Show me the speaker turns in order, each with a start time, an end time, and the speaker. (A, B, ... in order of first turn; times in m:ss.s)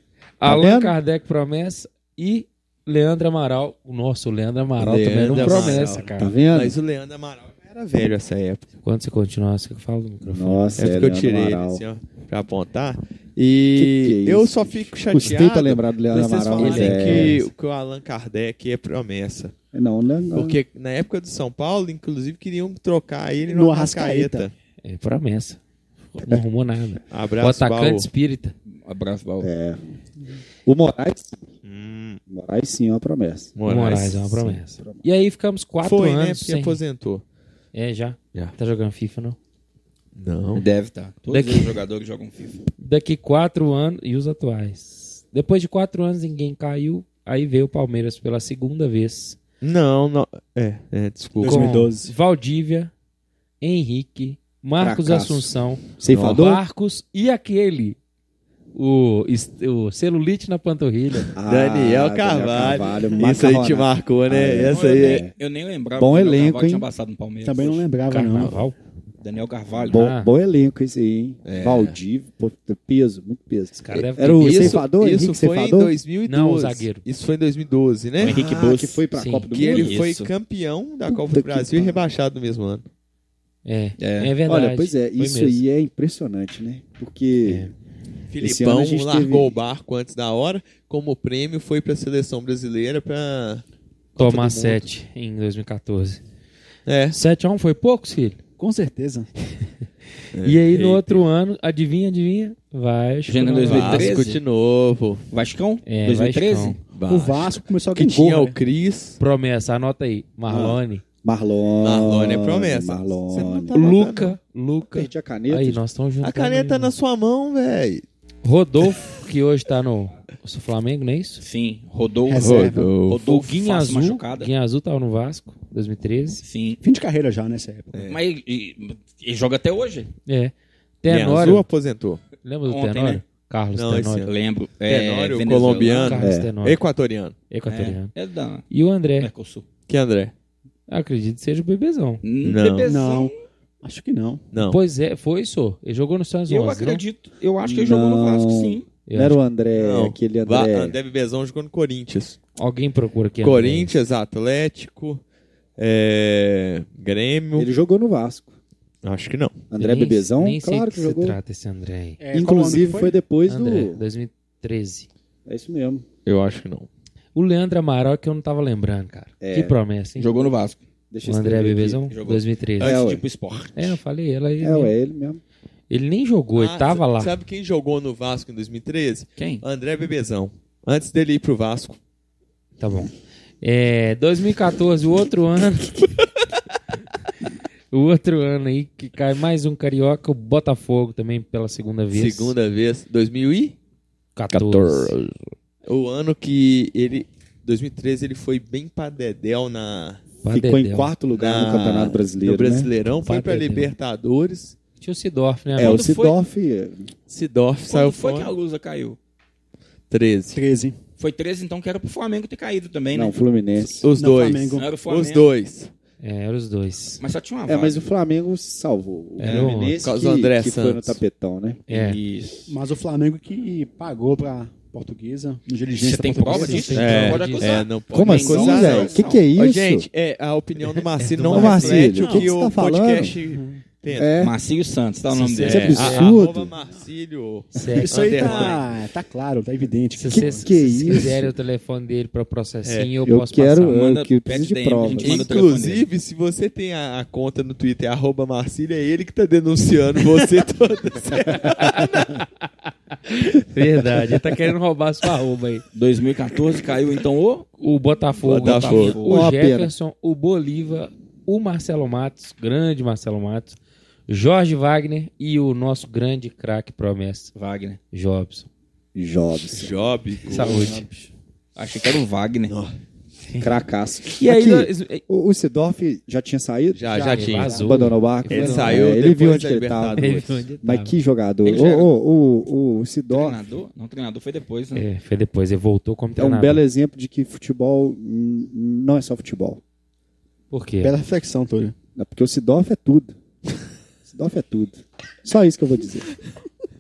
0:00.4-0:06.3 A
0:00.4-0:01.0 B
0:04.8-0:08.7 C
0:05.2-0:06.8 B
0:08.8-0:10.7 A
0:10.2-0:11.8 B
0:10.8-0:19.5 C
0:13.7-0:17.4 B
0:16.5-0:17.5 A
0:19.7-0:20.6 B
0:20.3-0:24.5 C
0:23.5-0:24.5 D
0:24.8-0:25.6 A
0:26.2-0:28.5 A
0:27.1-0:28.1 C
0:28.8-0:29.5 E
0:29.4-0:29.8 B
0:30.6-0:31.4 B
0:31.6-0:32.2 C
0:32.3-0:33.5 B
0:33.6-0:34.6 C
0:33.7-0:36.8 A
0:34.8-0:35.0 B
0:35.8-0:37.2 C
0:37.7-0:39.4 A
0:40.2-0:40.7 C
0:40.5-0:42.6 E
0:41.3-0:41.8 A
0:42.8-0:49.4 A
0:49.6-0:51.7 C
0:51.4-0:52.1 D
0:51.4-0:52.9 A
0:53.6-0:58.0 A
0:54.8-0:56.6 B
0:56.1-0:56.4 C
0:58.8-1:01.3 A
1:01.4-1:05.3 B
1:01.4-1:05.2 C
1:04.7-1:07.8 E
1:06.0-1:06.9 B
1:07.4-1:08.6 D
1:08.1-1:08.8 A
1:09.2-1:10.0 E
1:09.9-1:16.0 B
1:09.9-1:10.3 A
1:11.4-1:12.0 C
1:13.8-1:14.8 A
1:14.0-1:18.4 C
1:16.3-1:17.0 A
1:18.2-1:19.0 E
1:18.2-1:20.1 B
1:19.1-1:19.6 A
1:19.5-1:22.8 C
1:19.7-1:20.3 E
1:21.1-1:22.1 B
1:23.6-1:25.6 A
1:24.0-1:24.3 E
1:24.5-1:27.7 B
1:27.5-1:27.7 A
1:28.3-1:33.6 C
1:28.4-1:29.6 B
1:34.2-1:34.9 B
1:34.2-1:36.2 A
1:36.9-1:37.2 C
1:37.1-1:38.4 A
1:38.6-1:39.3 D
1:40.3-1:41.2 C
1:40.4-1:44.2 A
1:43.3-1:44.4 E
1:43.6-1:45.2 C
1:45.3-1:46.8 E
1:45.8-1:46.8 A
1:46.9-1:49.2 C
1:47.1-1:48.6 D
1:49.2-1:51.0 A
1:50.5-1:53.8 B
1:51.8-1:54.4 C
1:53.7-1:56.9 A
1:54.9-1:55.8 B
1:56.2-1:58.0 C
1:58.4-2:01.4 A
2:01.4-2:04.5 E
2:02.3-2:03.0 D
2:02.4-2:03.2 C
2:03.2-2:06.4 A
2:06.4-2:06.8 E
2:06.8-2:08.1 D
2:07.9-2:08.2 C
2:08.1-2:10.1 E
2:10.3-2:11.7 A
2:11.1-2:12.2 C
2:12.4-2:14.3 A
2:12.7-2:13.2 E
2:13.8-2:14.3 C
2:14.2-2:16.2 E
2:14.9-2:17.4 C
2:16.0-2:16.8 A
2:16.2-2:16.5 B
2:17.5-2:18.1 A
2:17.7-2:18.7 E
2:18.7-2:19.3 A
2:19.2-2:19.7 E
2:19.9-2:20.3 C
2:20.9-2:22.2 A
2:22.2-2:23.4 E
2:22.4-2:22.9 C
2:22.8-2:24.4 D
2:24.5-2:24.8 C
2:24.6-2:27.0 A
2:26.5-2:28.9 E
2:27.6-2:31.0 B
2:29.1-2:29.4 A
2:29.8-2:32.4 C
2:32.6-2:34.0 A
2:33.4-2:35.2 C
2:35.8-2:37.7 C
2:37.6-2:38.5 B
2:39.0-2:39.6 C
2:39.7-2:41.4 B
2:39.8-2:42.2 A
2:42.2-2:43.2 D
2:42.3-2:44.0 B
2:43.5-2:45.1 A
2:45.5-2:46.0 B
2:46.3-2:46.9 C
2:47.4-2:50.3 A
2:49.4-2:49.8 B
2:50.2-2:50.8 E
2:51.1-2:52.0 B
2:51.2-2:53.0 A
2:52.1-2:54.0 E
2:52.8-2:53.2 B
2:53.8-2:55.0 A
2:54.6-2:55.4 B
2:55.9-2:57.3 A
2:56.6-3:02.0 C
2:59.4-2:59.6 E
3:02.8-3:06.1 A
3:07.9-3:12.6 A
3:12.1-3:13.8 C
3:14.4-3:15.2 A
3:14.5-3:15.2 C
3:15.8-3:20.2 C
3:20.4-3:21.1 A
3:20.5-3:22.9 B
3:21.3-3:24.8 C
3:23.2-3:23.9 A
3:25.0-3:26.0 A
3:25.8-3:27.1 B
3:25.8-3:26.4 E
3:27.3-3:28.5 C
3:27.9-3:29.2 E
3:30.1-3:30.6 C
3:30.5-3:31.0 D
3:31.2-3:33.4 E
3:33.1-3:34.1 B
3:33.9-3:35.9 C
3:34.1-3:34.9 D
3:34.8-3:35.5 E
3:36.2-3:37.2 A
3:37.2-3:38.0 E
3:37.7-3:41.8 B
3:39.4-3:40.0 A
3:40.0-3:41.2 C
3:41.9-3:42.7 E
3:41.9-3:42.2 A
3:42.7-3:47.3 D
3:45.9-3:49.4 E
3:46.5-3:47.8 A
3:47.0-3:54.4 C
3:48.1-3:50.1 B
3:51.2-3:52.2 A
3:51.4-3:53.4 B
3:53.4-3:53.8 D
3:54.2-3:54.6 B
3:54.4-3:56.2 E
3:55.4-3:56.4 A
3:55.6-3:58.8 C
3:55.6-3:56.8 B
3:57.7-3:58.7 A
3:57.9-4:00.7 D
4:00.2-4:04.0 A
4:00.3-4:01.5 B
4:02.8-4:03.1 C
4:03.2-4:05.5 B
4:03.9-4:06.1 E
4:05.2-4:12.4 C
4:11.8-4:12.4 A
4:13.2-4:15.8 A
4:15.9-4:17.7 E
4:17.8-4:23.8 A
4:18.4-4:19.2 C
4:18.6-4:19.4 E
4:19.3-4:19.9 B
4:24.3-4:27.5 A
4:27.6-4:28.0 E
4:28.1-4:28.7 A
4:29.2-4:30.0 B
4:29.7-4:31.0 C
4:30.5-4:31.1 A
4:30.5-4:31.1 B
4:31.8-4:32.7 E
4:32.7-4:33.0 C
4:33.6-4:37.1 B
4:34.4-4:35.2 A
4:36.9-4:37.9 C
4:37.1-4:38.0 D
4:37.2-4:39.1 A
4:37.7-4:43.6 B
4:38.5-4:40.4 C
4:40.2-4:41.2 A
4:41.6-4:42.1 E
4:43.3-4:45.0 E
4:45.0-4:46.8 A
4:46.4-4:49.8 B
4:50.7-4:51.2 A
4:51.0-4:52.0 D
4:52.2-4:53.3 B
4:54.3-4:56.3 B